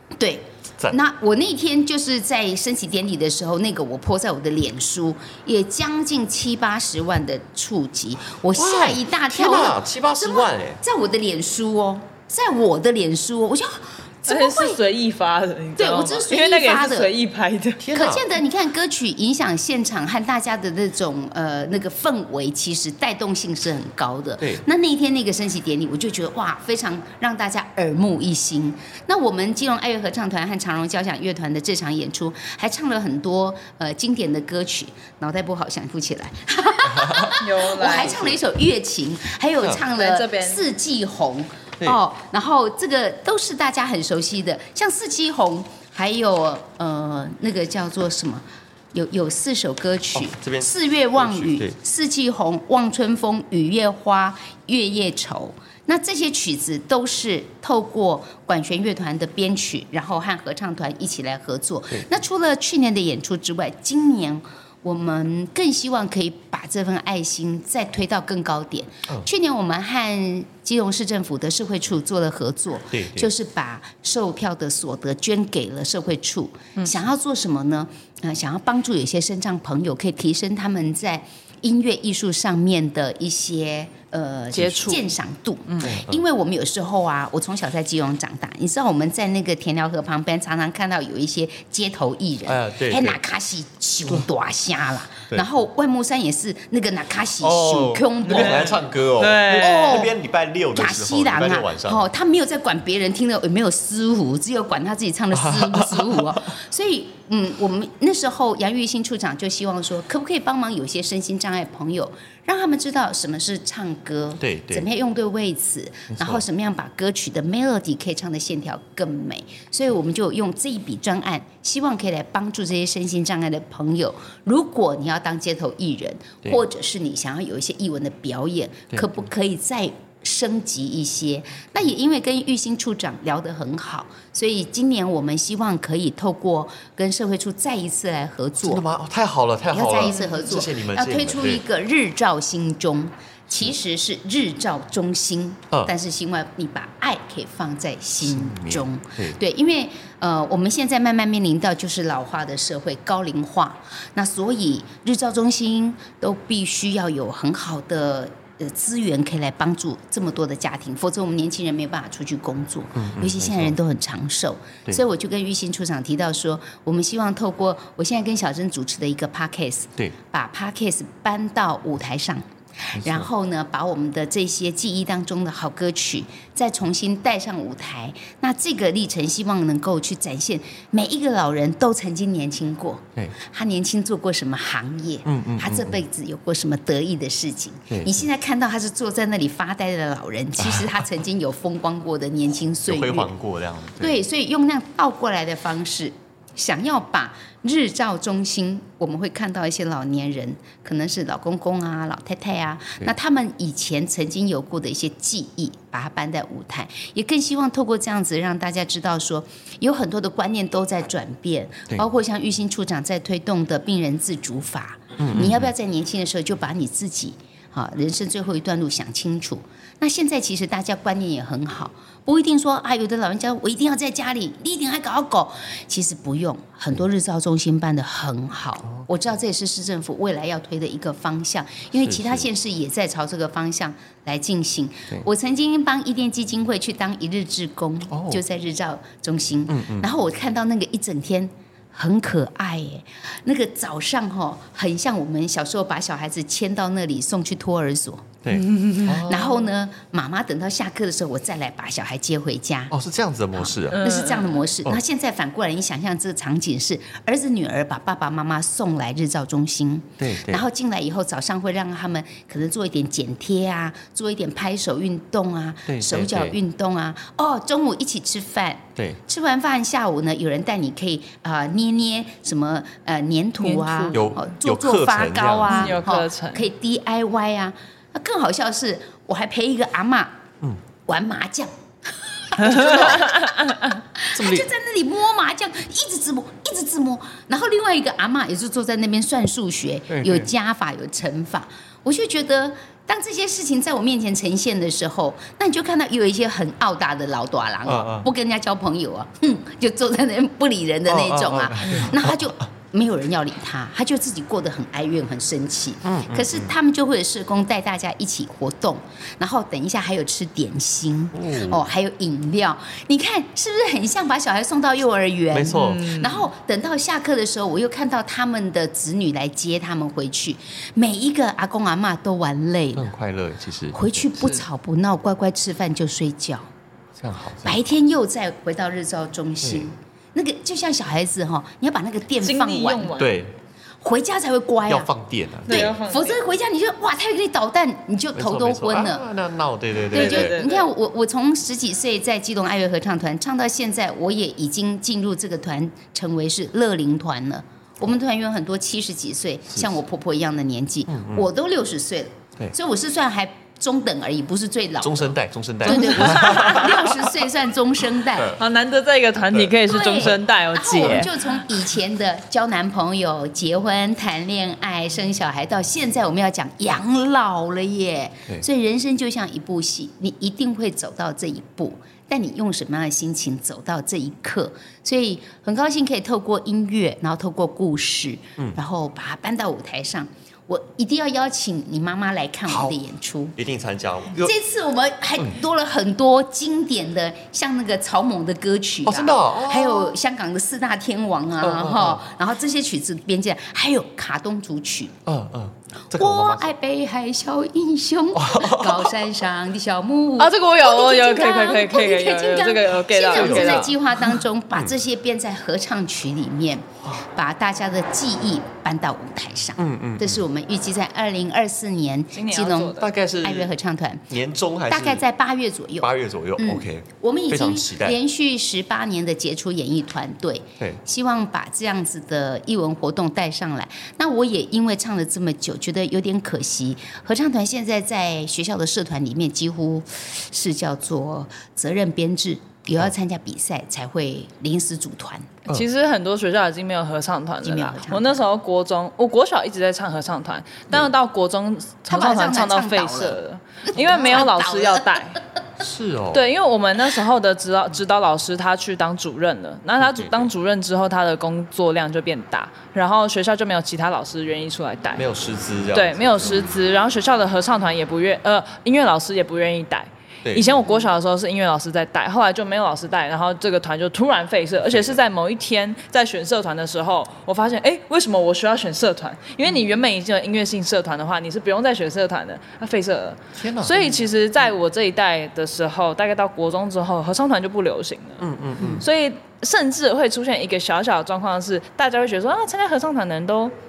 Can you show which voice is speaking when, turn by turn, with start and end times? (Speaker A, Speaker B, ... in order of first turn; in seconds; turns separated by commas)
Speaker A: 0.2-14.8, Speaker B: 8.5-10.8, Speaker C: 14.3-17.8, Speaker A: 15.8-17.1, Speaker B: 17.8-18.3, Speaker A: 17.9-98.8, Speaker B: 24.4-24.6, Speaker C: 37.3-38.3, Speaker C: 39.9-40.6, Speaker B: 50.1-51.8, Speaker B: 72.9-73.3, Speaker C: 84.5-85.0, Speaker B: 85.8-86.2, Speaker B: 92.5-93.2, Speaker B: 97.4-102.1, Speaker C: 98.3-100.1, Speaker A: 99.5-100.1, Speaker A: 100.7-138.8, Speaker B: 105.3-106.5, Speaker B: 114.4-114.9, Speaker B: 116.1-116.4, Speaker B: 138.6-141.6, Speaker A: 139.7-193.3, Speaker B: 148.2-149.4, Speaker B: 163.0-163.8, Speaker B: 173.0-173.3, Speaker B: 185.2-186.0, Speaker B: 187.9-188.3, Speaker B: 190.6-191.0, Speaker B: 192.9-194.2, Speaker A: 194.0-248.3, Speaker B: 215.2-215.7, Speaker B: 232.0-232.5, Speaker B: 238.1-238.4, Speaker B: 239.7-240.1, Speaker B: 248.4-249.5, Speaker C: 248.6-249.2, Speaker A: 249.0-252.9, Speaker B: 252.9-254.0, Speaker A: 253.6-280.3, Speaker C: 253.9-254.6, Speaker B: 260.2-260.6, Speaker B: 265.9-266.6, Speaker C: 273.6-274.2, Speaker B: 274.1-276.0, Speaker C: 275.7-276.7, Speaker A: 281.1-283.5, Speaker C: 282.7-283.8, Speaker A: 284.2-323.1, Speaker B: 284.3-284.7, Speaker B: 290.1-290.5, Speaker B: 297.9-298.3, Speaker B: 301.1-302.5, Speaker B: 306.0-306.7, Speaker B: 311.3-311.8, Speaker B: 315.5-316.1, Speaker C: 315.7-316.4, Speaker B: 322.9-324.6, Speaker A: 323.9-326.7, Speaker B: 327.2-327.8, Speaker A: 327.6-333.2, Speaker B: 329.6-329.9, Speaker C: 332.4-333.4, Speaker B: 333.2-333.6, Speaker A: 334.0-335.1, Speaker B: 334.9-336.0, Speaker C: 335.7-336.4, Speaker A: 335.7-339.2, Speaker B: 338.4-340.6, Speaker C: 340.1-340.9, Speaker A: 340.1-358.6, Speaker B: 351.1-351.5, Speaker B: 355.0-357.4, Speaker C: 355.9-356.9, Speaker B: 358.2-358.6, Speaker C: 358.6-361.3, Speaker B: 359.5-359.8, Speaker A: 359.9-383.6, Speaker B: 361.0-361.3, Speaker B: 382.7-383.0, Speaker B: 383.6-384.5, Speaker A: 384.4-395.1, Speaker B: 389.1-390.1, Speaker B: 391.6-392.2, Speaker B: 395.3-396.7, Speaker A: 396.1-414.3, Speaker B: 398.3-399.2, Speaker C: 400.4-403.9, Speaker B: 403.3-404.9, Speaker B: 409.8-410.4, Speaker C: 412.3-413.1, Speaker B: 412.9-413.7, Speaker B: 414.3-415.2, Speaker A: 414.9-435.6, Speaker B: 416.0-418.2, Speaker C: 435.7-445.4, Speaker A: 437.6-438.4, Speaker A: 442.1-445.2, Speaker B: 445.8-446.5, Speaker C: 446.3-455.3, Speaker B: 450.0-450.5, Speaker B: 455.2-456.7, Speaker C: 455.9-478.4, Speaker B: 460.4-460.7, Speaker B: 464.9-465.2, Speaker B: 473.6-474.2, Speaker B: 478.4-479.1, Speaker C: 479.0-483.7